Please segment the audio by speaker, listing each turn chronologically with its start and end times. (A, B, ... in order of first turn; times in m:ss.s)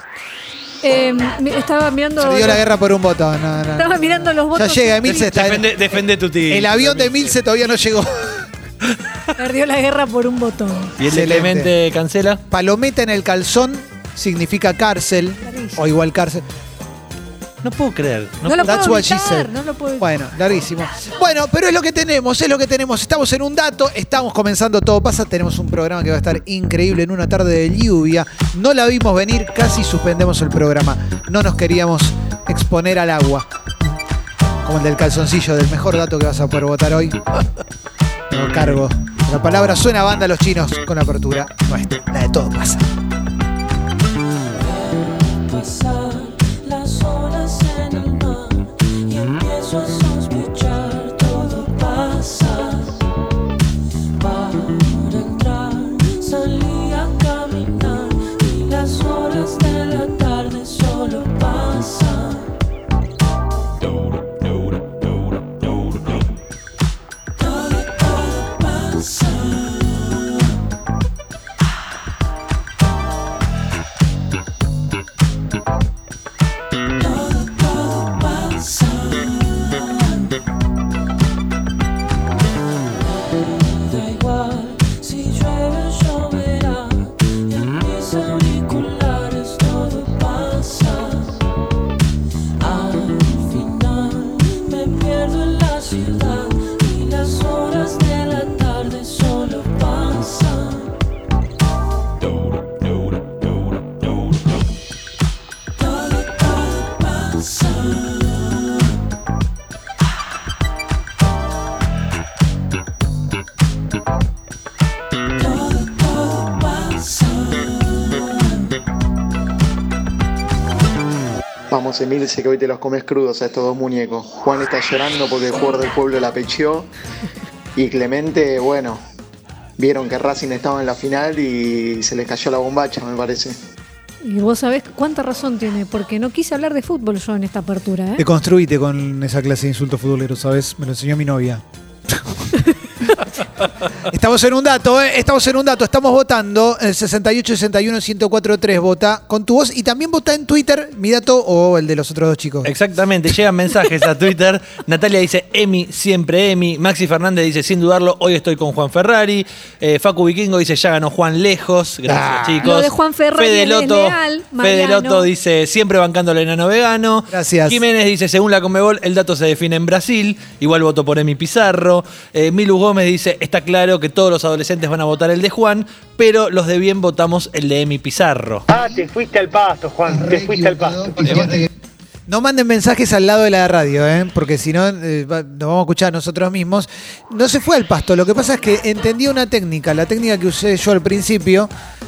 0:00.8-0:02.6 A
0:02.2-0:06.0 B
0:03.8-0:05.3 A
0:05.0-0:07.4 C
0:06.5-0:08.5 B
0:09.4-0:11.0 A
0:11.0-0:12.4 C
0:11.0-0:11.7 B
0:12.5-0:16.4 B
0:15.4-0:15.8 A
0:17.6-0:18.7 C
0:18.4-0:20.1 A
0:18.6-0:33.5 B
0:34.6-0:37.2 B
0:38.3-0:42.9 B
0:45.5-0:48.4 D
0:49.2-0:52.0 D
0:54.7-0:55.6 D
0:56.1-0:57.7 D
0:58.4-1:01.5 D
1:25.0-1:26.6 D
1:28.0-1:28.5 D
1:29.1-1:30.4 D
1:33.0-1:35.9 D
1:36.6-1:40.4 D
2:01.7-2:06.9 E
2:07.8-2:09.0 E
2:09.8-2:13.6 E
2:14.2-2:18.2 A
2:18.2-2:22.4 B
2:24.0-2:32.7 B
2:32.6-2:58.7 C
2:42.1-2:42.7 B
2:42.6-2:45.3 A
2:47.3-2:47.8 B
2:58.7-3:01.6 F
3:01.2-3:01.5 C
3:02.3-3:11.7 B